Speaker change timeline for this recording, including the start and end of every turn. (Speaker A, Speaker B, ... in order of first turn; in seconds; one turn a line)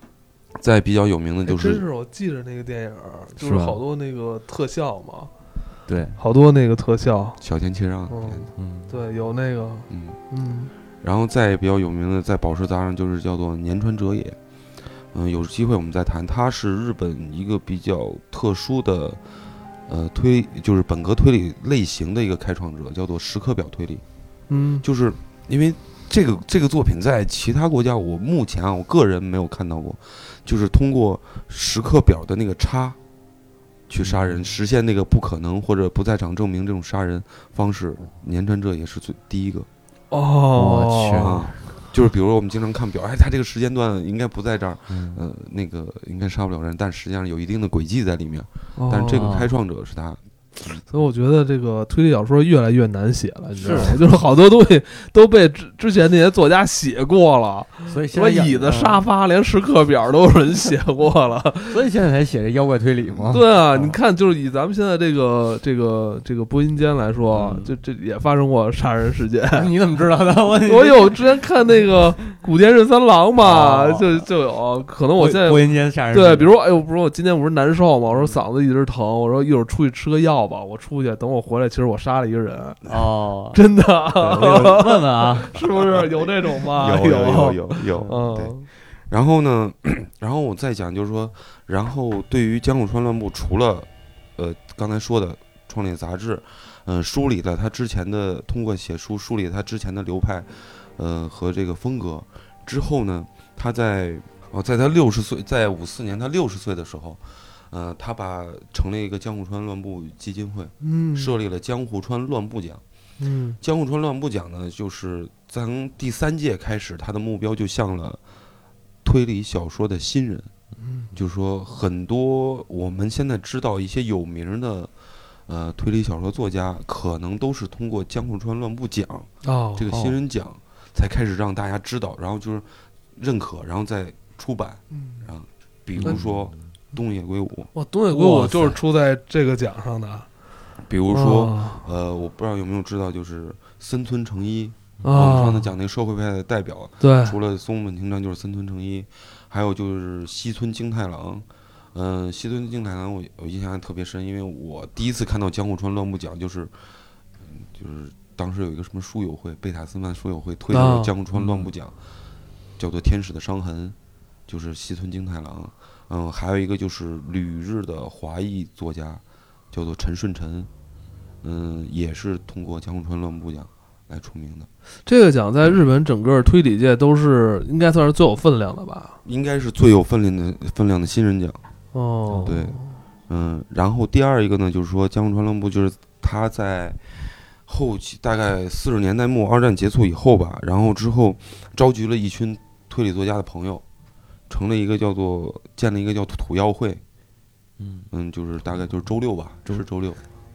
Speaker A: 0.6-1.8
Speaker B: 1.4-5.3
Speaker C: 3.4-3.8
Speaker C: 5.9-6.2
Speaker B: 6.2-7.4
Speaker A: 7.4-8.5
Speaker B: 8.1-10.7
Speaker C: 8.6-8.9
Speaker A: 9.9-10.2
Speaker A: 11.0-14.4
Speaker A: 15.1-19.2
Speaker A: 19.9-24.0
Speaker B: 24.5-24.8
Speaker A: 24.8-33.0
Speaker A: 33.9-39.7
Speaker C: 34.0-34.5
Speaker B: 40.1-41.5
Speaker C: 40.5-41.5
Speaker A: 41.1-50.2
Speaker C: 44.9-45.2
Speaker B: 48.8-49.4
Speaker C: 49.1-49.5
Speaker B: 50.8-61.8
Speaker C: 53.6-54.0
Speaker C: 57.9-59.0
Speaker C: 61.7-63.9
Speaker B: 63.3-69.7
Speaker C: 67.3-67.7
Speaker C: 69.5-71.2
Speaker B: 70.6-82.9
Speaker C: 73.4-74.2
Speaker C: 75.2-76.5
Speaker C: 82.8-83.6
Speaker B: 83.5-88.7
Speaker C: 84.1-85.5
Speaker A: 86.7-112.8
Speaker B: 110.8-111.3
Speaker B: 113.2-113.6
Speaker A: 113.6-118.2
Speaker A: 119.0-120.5
Speaker B: 120.8-121.1
Speaker A: 121.1-124.9
Speaker A: 125.5-137.7
Speaker B: 129.4-129.9
Speaker C: 129.9-130.2
Speaker B: 134.9-135.3
Speaker C: 135.9-136.6
Speaker B: 137.7-140.3
Speaker C: 138.1-138.8
Speaker A: 140.8-156.8
Speaker B: 141.1-141.8
Speaker C: 145.0-145.4
Speaker B: 145.0-145.7
Speaker B: 147.0-147.3
Speaker A: 157.4-161.9
Speaker B: 160.7-161.1
Speaker C: 161.3-161.7
Speaker A: 162.8-163.9
Speaker A: 164.5-170.7
Speaker A: 171.4-174.7
Speaker B: 175.1-179.2
Speaker A: 179.2-181.6
Speaker B: 181.9-182.9
Speaker C: 182.3-182.6
Speaker A: 182.4-182.8
Speaker A: 183.3-187.0
Speaker A: 187.6-193.8
Speaker A: 194.5-197.0
Speaker C: 197.8-198.1
Speaker A: 198.1-200.2